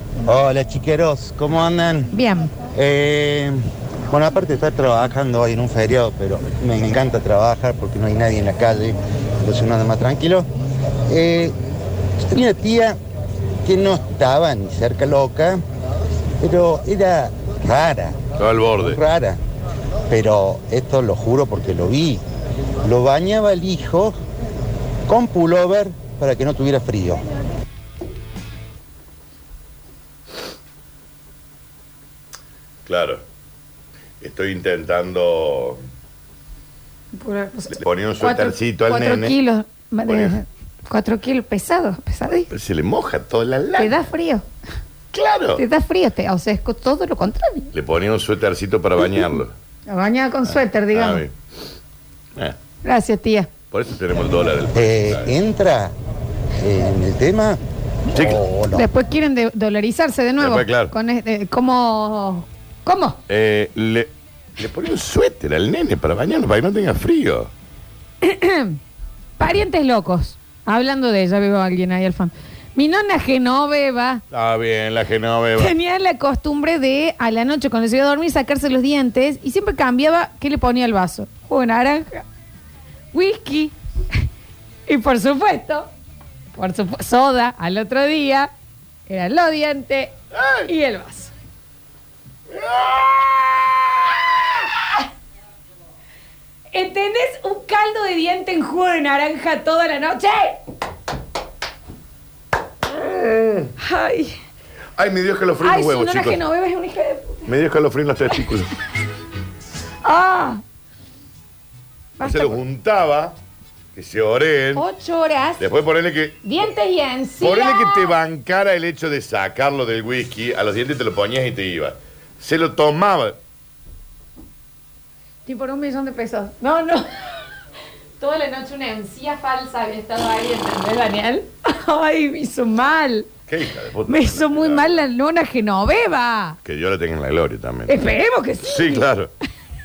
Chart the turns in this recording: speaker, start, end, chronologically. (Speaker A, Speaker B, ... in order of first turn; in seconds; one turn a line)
Speaker A: 0.2-2.1
Speaker B: 2.1-2.5
Speaker A: 2.7-3.6
Speaker A: 4.1-10.5
Speaker A: 11.1-11.6
Speaker A: 12.3-13.0
Speaker A: 13.6-15.6
Speaker A: 16.4-18.2
Speaker C: 18.4-19.0
Speaker A: 18.8-19.4
Speaker A: 20.1-22.2
Speaker A: 22.8-24.2
Speaker A: 25.1-27.2
Speaker C: 32.9-33.2
Speaker C: 34.2-35.8
Speaker B: 37.1-42.5
Speaker C: 37.7-39.4
Speaker C: 40.1-40.4
Speaker C: 42.5-44.0
Speaker B: 43.8-44.5
Speaker C: 45.1-45.6
Speaker B: 45.6-47.7
Speaker C: 47.7-49.5
Speaker B: 49.9-51.2
Speaker C: 50.9-51.3
Speaker B: 52.8-53.5
Speaker C: 53.7-55.3
Speaker A: 54.8-55.9
Speaker A: 56.6-57.6
Speaker C: 58.1-58.4
Speaker A: 58.1-58.9
Speaker B: 58.7-63.2
Speaker C: 60.4-60.9
Speaker C: 63.3-67.5
Speaker B: 68.2-68.8
Speaker B: 69.4-74.2
Speaker C: 74.3-75.7
Speaker B: 75.6-82.2
Speaker B: 83.1-83.8
Speaker B: 84.9-85.9
Speaker B: 86.5-88.5
Speaker B: 89.1-91.3
Speaker C: 90.3-90.7
Speaker C: 92.5-93.6
Speaker B: 96.7-100.6
Speaker C: 102.9-103.7
Speaker B: 103.8-104.4
Speaker C: 105.0-106.4
Speaker B: 105.6-107.5
Speaker C: 107.5-108.7
Speaker B: 110.0-110.6
Speaker B: 112.2-112.6
Speaker C: 112.2-113.3
Speaker C: 113.9-114.8
Speaker B: 114.8-115.6
Speaker C: 115.6-116.4
Speaker B: 116.4-118.1
Speaker C: 117.4-123.4
Speaker B: 125.5-127.0
Speaker B: 128.2-133.3
Speaker C: 133.5-135.0
Speaker B: 134.1-136.6
Speaker C: 136.6-138.0
Speaker B: 137.9-139.1
Speaker C: 138.7-139.3